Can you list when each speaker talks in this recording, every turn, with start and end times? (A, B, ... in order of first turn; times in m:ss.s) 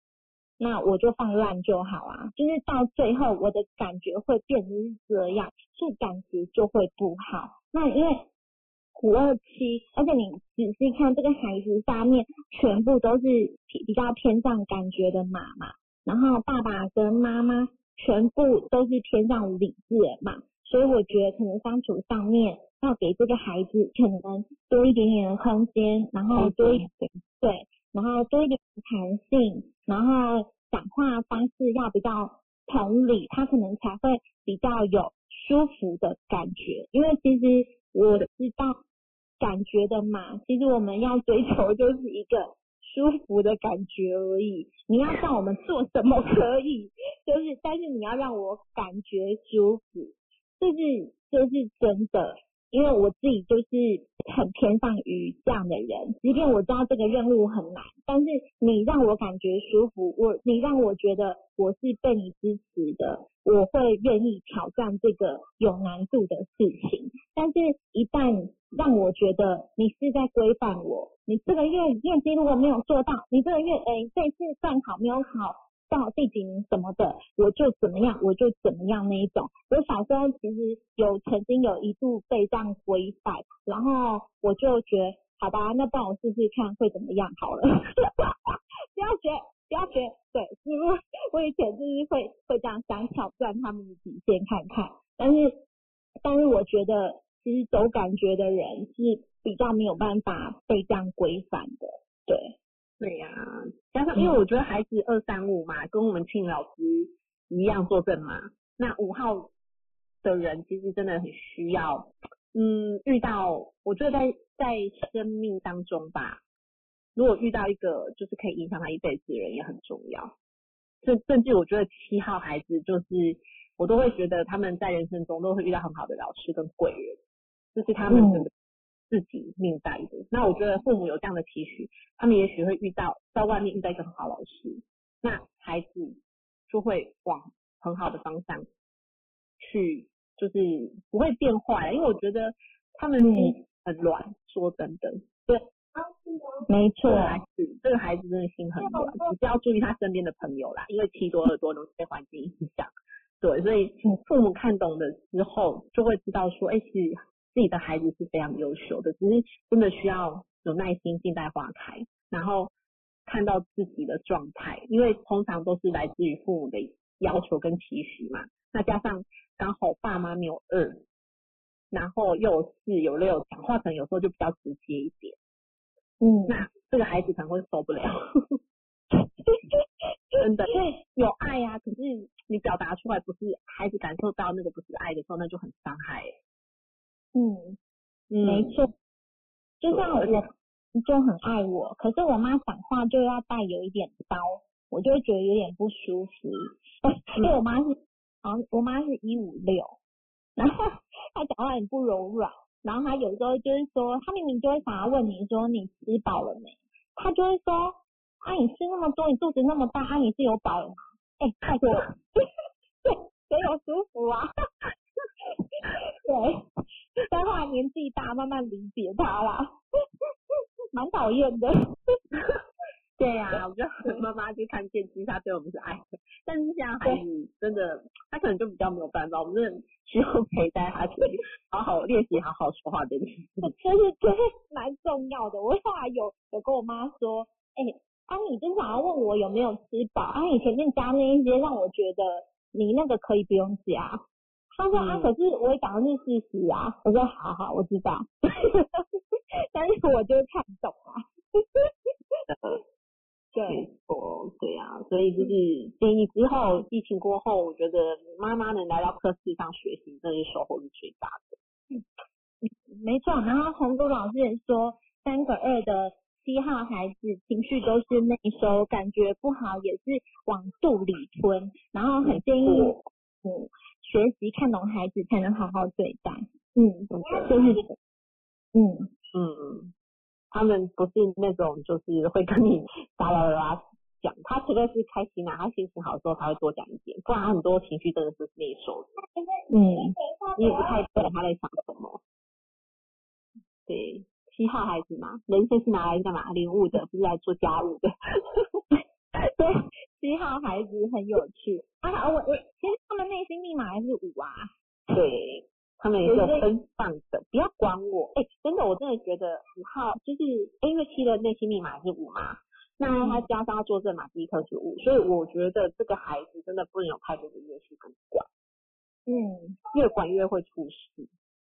0:00.6-0:08.2 A
0:08.9-0:26.9 A
0:26.3-0:27.2 B
0:27.4-0:38.8 A
0:39.4-1:35.6 A
1:36.2-1:42.5 A
1:43.0-1:49.5 B
1:50.2-1:56.4 B
1:57.2-2:00.3 B
2:01.0-2:07.2 B
2:07.7-2:08.5 B
2:08.1-2:08.5 A
2:09.1-2:18.6 B
2:19.6-2:25.2 B
2:23.2-2:23.5 A
2:26.6-2:27.4 A
2:27.0-2:42.7 B
2:28.8-2:29.3 A
2:43.3-2:51.0 B
2:51.9-2:55.4 B
2:56.2-2:56.6 A
2:56.5-2:58.6 B
2:59.2-3:00.8 A
3:00.4-3:06.3 B
3:07.3-3:07.8 A
3:08.3-3:08.8 B
3:08.4-3:08.9 A
3:09.8-3:20.0 A
3:09.9-3:10.5 B
3:20.6-3:32.4 A
3:33.0-3:34.5 A
3:35.6-3:36.6 A
3:37.3-3:39.8 A
3:40.9-3:42.2 A
3:43.2-3:53.7 B
3:53.6-4:09.1 A
4:04.9-4:05.3 B
4:09.6-4:11.9 A
4:12.5-4:12.8 B
4:13.5-4:13.8 A
4:13.7-4:21.6 B
4:22.6-4:37.9 A
4:32.2-4:33.0 B
4:37.1-4:37.8 B
4:38.7-4:39.1 A
4:39.3-4:39.9 B
4:40.5-4:49.1 B
4:49.7-4:51.3 A
4:50.6-4:52.2 B
4:53.9-4:58.8 B
4:59.4-5:04.7 A
5:05.1-5:18.5 B
5:06.2-5:06.7 A
5:19.3-5:19.8 A
5:19.9-5:21.3 B